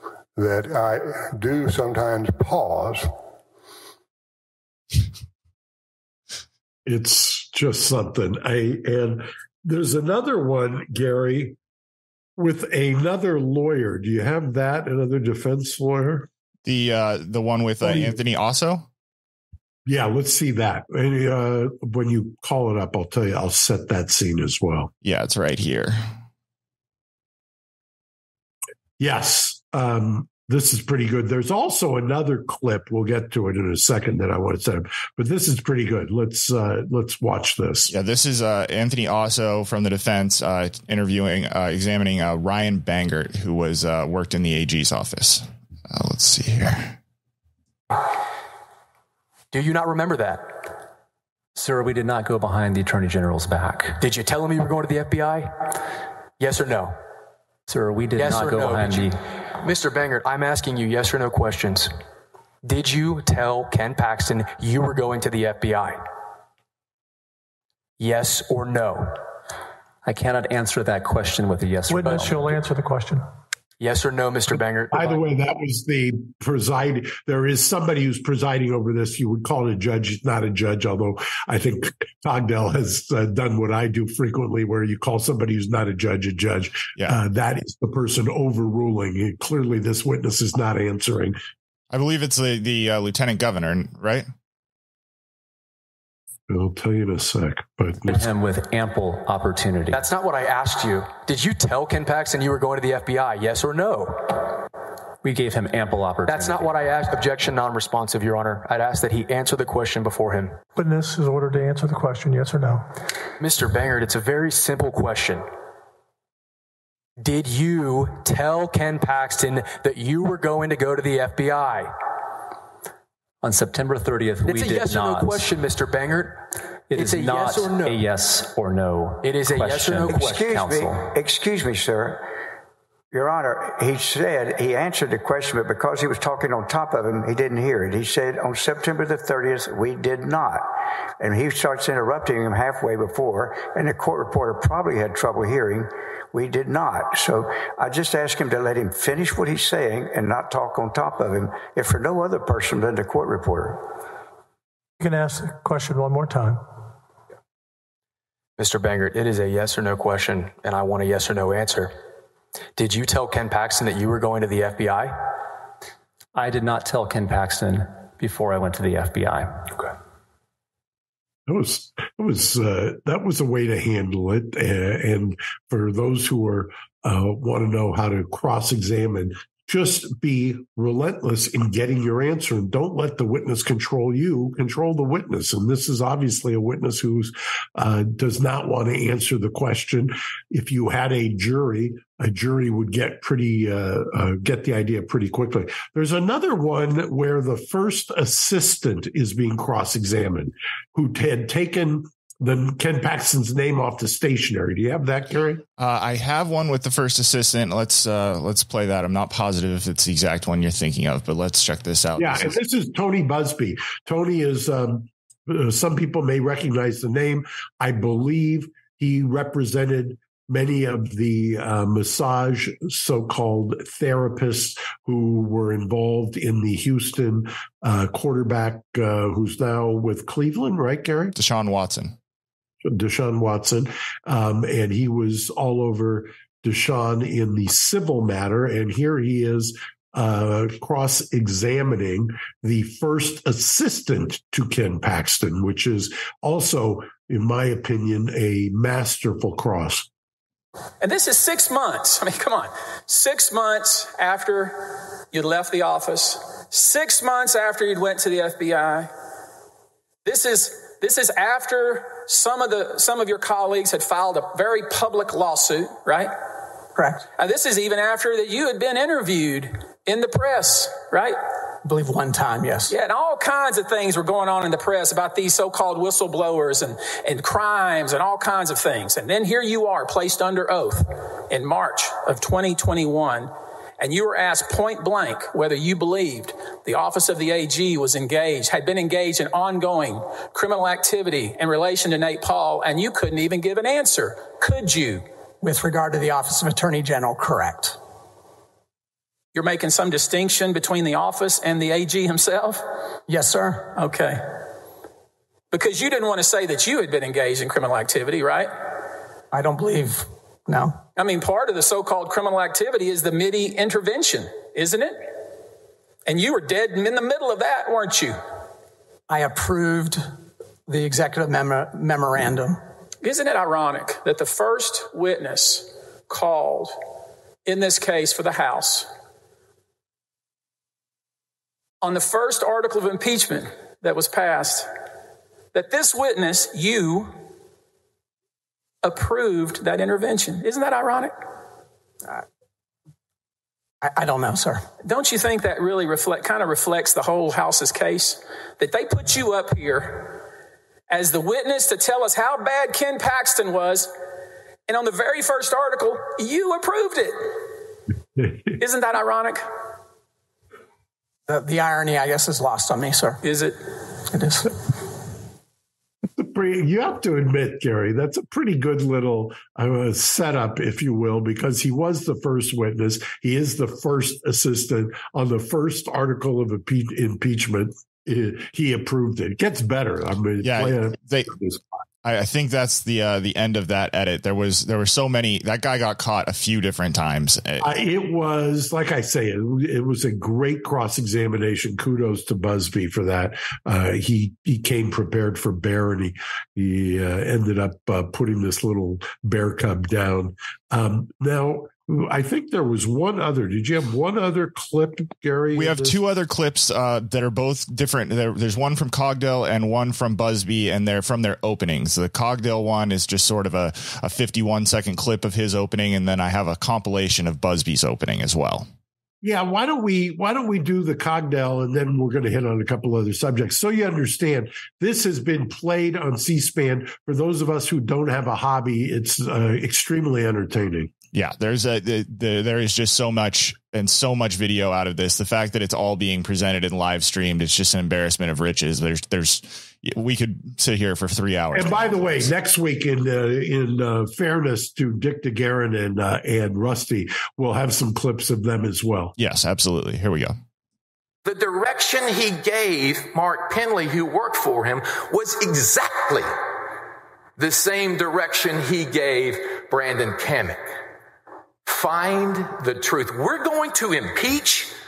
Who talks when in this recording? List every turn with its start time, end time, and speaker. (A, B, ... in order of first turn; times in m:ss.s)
0:00.4-0:03.1 A
0:06.8-0:11.6 B
0:12.4-0:16.3 B
0:16.6-0:18.9 C
0:17.8-0:18.2 B
0:19.8-0:24.9 B
0:25.0-0:26.1 C
0:29.0-0:37.9 B
0:37.9-0:47.0 C
0:49.5-0:50.5 D
0:51.5-0:54.0 E
0:54.0-0:55.5 D
0:56.4-0:56.9 D
0:57.7-0:59.2 E
0:58.1-1:01.9 D
1:02.6-1:06.0 D
1:08.0-1:09.1 D
1:10.0-1:12.6 E
1:11.9-1:13.2 F
1:13.8-1:15.2 D
1:14.9-1:31.4 B
1:31.9-1:34.3 C
1:36.5-1:38.2 B
1:38.1-1:40.0 E
1:39.9-1:44.4 D
1:45.2-1:46.8 E
1:46.2-1:50.6 D
1:50.8-1:52.8 F
1:53.4-1:55.4 D
1:57.2-2:01.9 D
2:03.4-2:05.5 E
2:04.4-2:06.4 D
2:06.9-2:11.0 E
2:06.9-2:08.0 D
2:09.2-2:10.5 D
2:10.0-2:12.3 G
2:13.1-2:20.7 G
2:21.2-2:33.9 G
2:35.0-2:36.6 F
2:38.6-2:41.9 D
2:42.8-2:45.2 D
2:46.3-2:49.8 E
2:51.5-3:25.6 B
3:25.8-3:32.6 C
3:32.2-3:51.3 B
3:51.3-3:52.2 C
3:52.8-4:10.1 B
4:11.0-4:19.1 H
4:20.2-4:26.3 H
4:27.0-4:27.2 I
4:27.4-4:31.4 H
4:31.8-4:32.9 I
4:32.9-4:55.2 H
4:55.6-4:58.0 I
4:59.5-5:02.8 H
5:03.3-5:03.9 I
5:03.9-5:04.4 H
5:05.7-5:08.7 H
5:09.5-5:11.0 I
5:11.2-5:15.2 H
5:16.2-5:18.4 H
5:19.3-5:20.2 I
5:20.9-5:22.8 I
5:23.2-5:26.9 H
5:27.6-5:29.1 H
5:32.0-5:34.9 H
5:35.7-5:37.3 H
5:39.0-5:41.3 H
5:44.0-5:44.8 I
5:45.0-5:50.3 H
5:51.1-5:54.1 H
5:54.9-5:57.5 H
5:58.8-5:59.6 H
6:01.5-6:03.4 I
6:03.4-6:03.8 H
6:04.3-6:04.7 I
6:06.4-6:21.8 B
6:20.6-6:21.5 C
6:22.2-6:27.9 C
6:27.8-6:46.2 B
6:45.7-6:58.9 C
6:59.4-7:11.1 B
7:11.3-7:22.5 C
7:21.7-7:29.3 B
7:29.4-7:30.6 C
7:31.4-7:36.5 J
7:37.6-7:40.8 J
7:41.8-7:44.9 J